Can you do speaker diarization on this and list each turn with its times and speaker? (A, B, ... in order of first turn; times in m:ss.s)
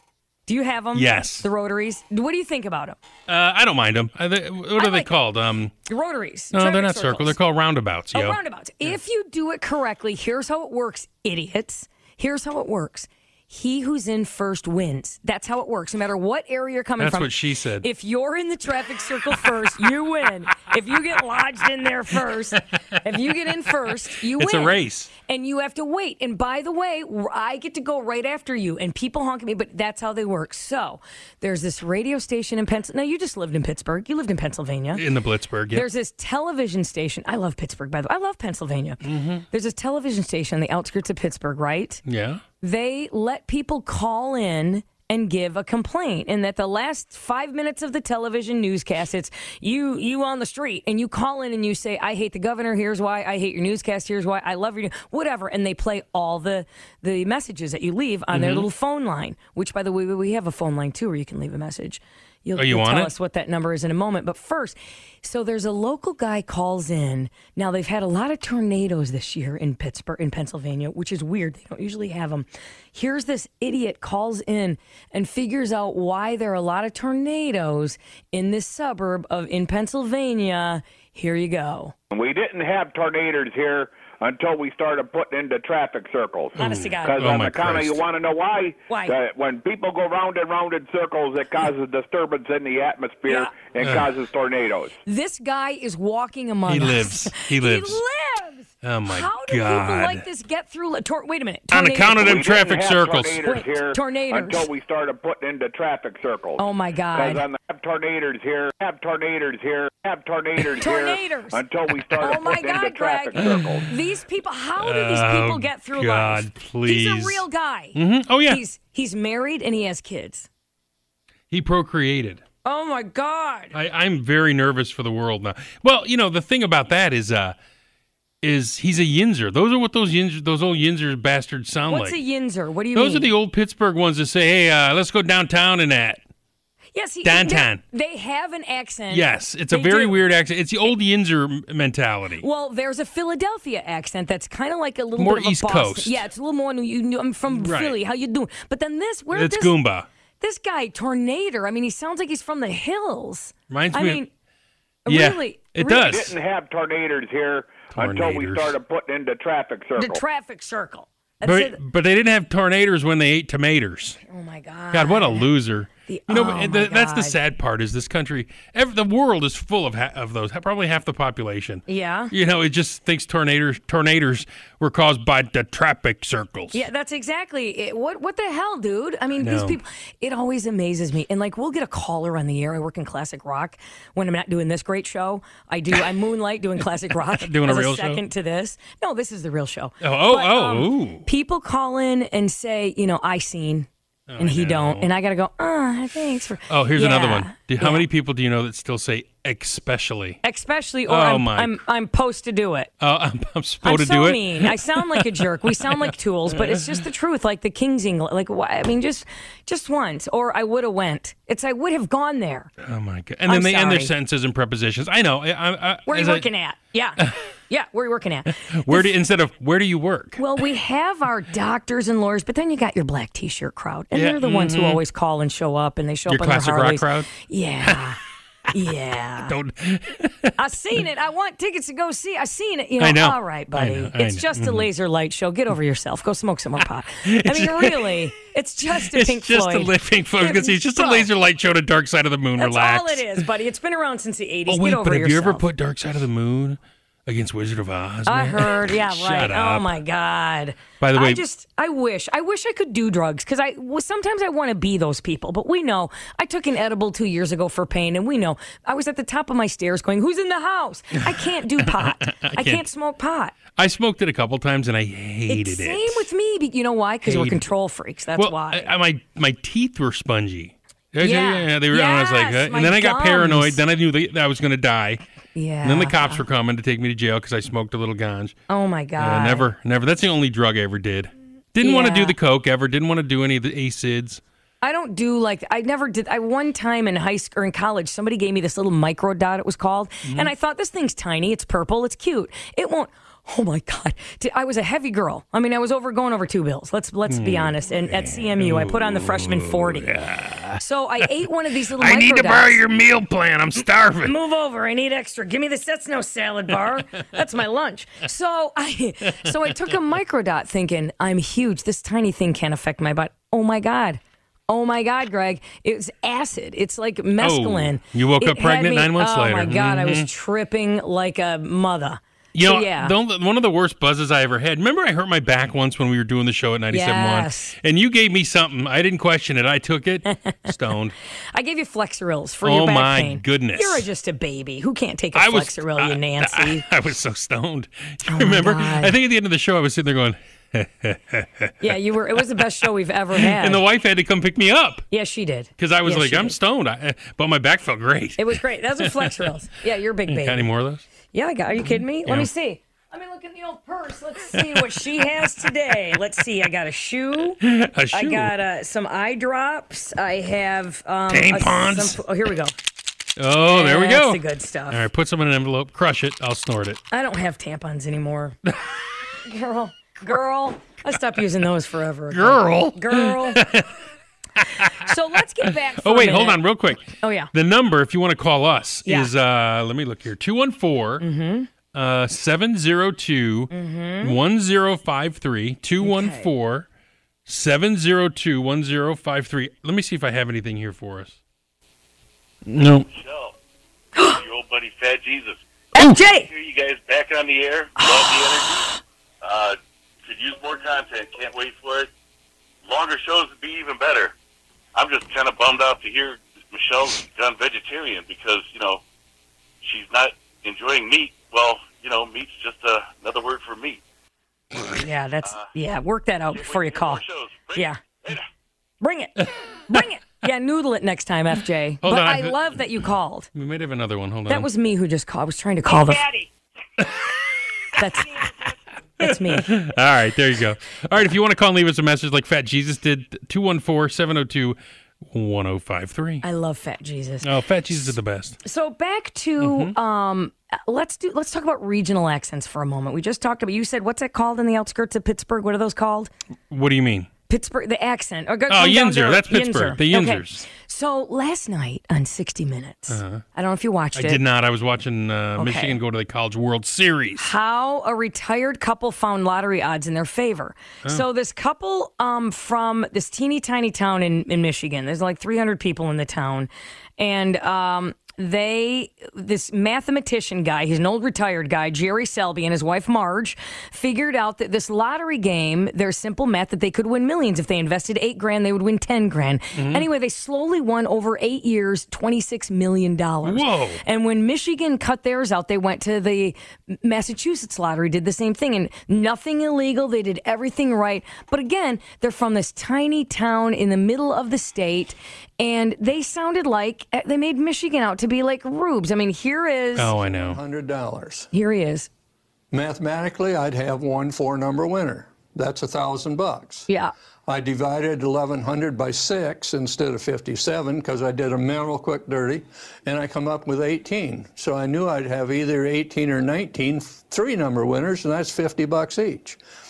0:00.5-0:03.0 A
0:00.9-0:01.5 B
0:03.3-0:05.7 B
0:04.8-0:05.1 A
0:05.9-0:07.4 A
0:06.5-0:08.9 B
0:08.1-0:35.0 A
0:17.0-0:17.9 B
0:22.6-0:23.0 B
0:24.2-0:25.1 B
0:34.9-0:35.8 B
0:35.7-0:42.0 A
0:39.0-0:39.4 B
0:42.0-0:42.4 B
0:42.6-1:21.9 A
0:58.3-0:58.7 B
1:02.6-1:03.1 B
1:22.1-1:34.9 C
1:26.6-1:27.2 A
1:26.6-1:28.0 B
1:28.9-1:29.2 A
1:33.3-1:33.5 A
1:33.8-1:34.1 B
1:35.0-1:42.4 A
1:36.7-1:38.0 B
1:38.8-1:40.2 B
1:41.7-1:43.5 B
1:42.2-1:46.6 C
1:43.4-1:44.7 A
1:46.6-1:47.4 A
1:47.1-1:53.9 C
1:50.8-1:51.6 A
1:52.2-2:00.5 A
1:53.4-1:53.9 B
1:54.8-1:57.4 B
1:57.9-1:58.6 B
2:01.5-2:02.4 B
2:02.6-2:03.7 A
2:03.7-2:07.6 B
2:08.4-2:12.2 B
2:11.9-2:13.3 A
2:12.9-2:16.2 B
2:16.9-2:20.2 A
2:17.2-2:17.8 B
2:19.1-2:22.4 B
2:22.4-2:29.7 A
2:25.2-2:26.2 B
2:27.5-2:28.0 B
2:29.3-2:30.1 B
2:30.4-2:34.3 A
2:33.7-2:34.2 B
2:35.0-2:36.2 A
2:35.1-2:36.4 B
2:36.0-2:40.2 C
2:37.9-2:38.7 B
2:40.0-2:41.8 A
2:41.4-2:44.2 B
2:44.2-2:45.5 A
2:44.9-2:56.8 B
2:46.1-2:47.4 A
2:51.9-2:52.3 A
2:56.7-3:13.9 A
2:59.4-2:59.8 B
3:07.1-3:08.2 B
3:10.0-3:11.2 B
3:14.3-3:15.1 B
3:14.4-3:18.0 A
3:16.7-3:20.4 B
3:20.4-3:22.9 A
3:21.1-3:21.8 B
3:23.0-3:27.0 B
3:23.8-3:32.7 A
3:32.8-3:36.5 B
3:33.5-3:34.1 A
3:36.1-3:39.1 A
3:38.7-3:40.4 B
3:40.4-3:48.2 A
3:44.1-3:45.0 B
3:46.3-3:48.0 B
3:48.7-3:49.5 A
3:49.4-3:50.5 B
3:50.6-4:01.3 A
3:53.0-3:54.9 B
3:57.2-3:58.2 B
3:59.0-4:03.4 B
4:02.6-4:05.6 A
4:04.7-4:10.0 B
4:08.3-4:23.5 A
4:11.0-4:11.4 B
4:21.2-4:22.8 B
4:23.7-4:26.3 B
4:25.5-4:28.9 A
4:27.2-4:27.6 B
4:28.4-4:35.2 B
4:31.2-4:33.8 A
4:35.5-4:36.4 A
4:35.8-4:38.6 B
4:38.7-4:39.7 A
4:39.2-4:44.4 B
4:41.8-4:42.4 A
4:44.8-5:00.1 A
4:50.2-4:50.5 B
4:57.3-5:01.2 B
5:00.8-5:02.8 A
5:01.9-5:04.3 B
5:03.8-5:23.1 A
5:09.4-5:09.9 B
5:17.4-5:20.3 B
5:22.5-5:31.1 B
5:26.9-5:27.7 A
5:30.2-5:30.7 A
5:31.5-5:36.8 A
5:32.6-5:34.0 B
5:35.3-5:42.0 B
5:38.2-5:39.1 A
5:41.8-5:43.8 A
5:43.4-5:45.0 B
5:45.1-5:46.6 A
5:45.8-5:49.5 B
5:48.4-5:50.6 A
5:50.3-5:51.0 B
5:51.3-5:57.6 A
5:51.8-5:52.5 B
5:54.5-5:55.7 B
5:57.6-5:58.5 B
5:58.1-6:02.7 A
6:01.3-6:02.2 B
6:03.4-6:07.0 B
6:03.6-6:05.0 A
6:07.1-6:08.6 A
6:09.4-6:13.6 A
6:12.3-6:14.0 B
6:14.6-6:15.1 B
6:14.8-6:17.5 A
6:15.6-6:21.2 B
6:19.0-6:19.3 A
6:21.2-6:21.7 A
6:21.9-6:26.9 B
6:23.7-6:24.4 A
6:26.0-6:26.5 A
6:27.4-6:31.4 B
6:32.6-6:33.1 B
6:33.1-6:33.6 D
6:34.2-6:35.6 D
6:35.9-6:36.5 A
6:36.4-6:38.9 D
6:39.4-6:42.1 D
6:42.8-6:44.3 D
6:44.9-6:49.0 D
6:49.8-6:54.0 D
6:54.9-6:57.2 A
6:55.4-6:55.7 D
6:56.5-6:58.4 D
6:57.7-6:58.0 A
6:59.0-7:03.5 A
7:02.0-7:02.8 B
7:03.5-7:04.7 B
7:04.5-7:06.3 A
7:08.0-7:08.5 A
7:09.2-7:09.7 A
7:09.2-7:16.4 B
7:16.4-7:18.1 A
7:17.4-7:18.6 B
7:18.6-7:26.3 A
7:19.6-7:19.9 B
7:26.7-7:27.3 B
7:27.5-7:34.4 A
7:28.7-7:30.6 B
7:33.1-7:33.4 B
7:34.2-7:37.5 B
7:35.6-7:36.0 A
7:37.4-8:20.1 A
7:59.8-8:00.1 B
8:03.4-8:04.0 B
8:20.0-8:20.6 B
8:20.1-8:21.5 E
8:21.5-8:22.1 A
8:22.7-8:26.9 E
8:26.9-8:27.1 A
8:27.5-8:39.6 E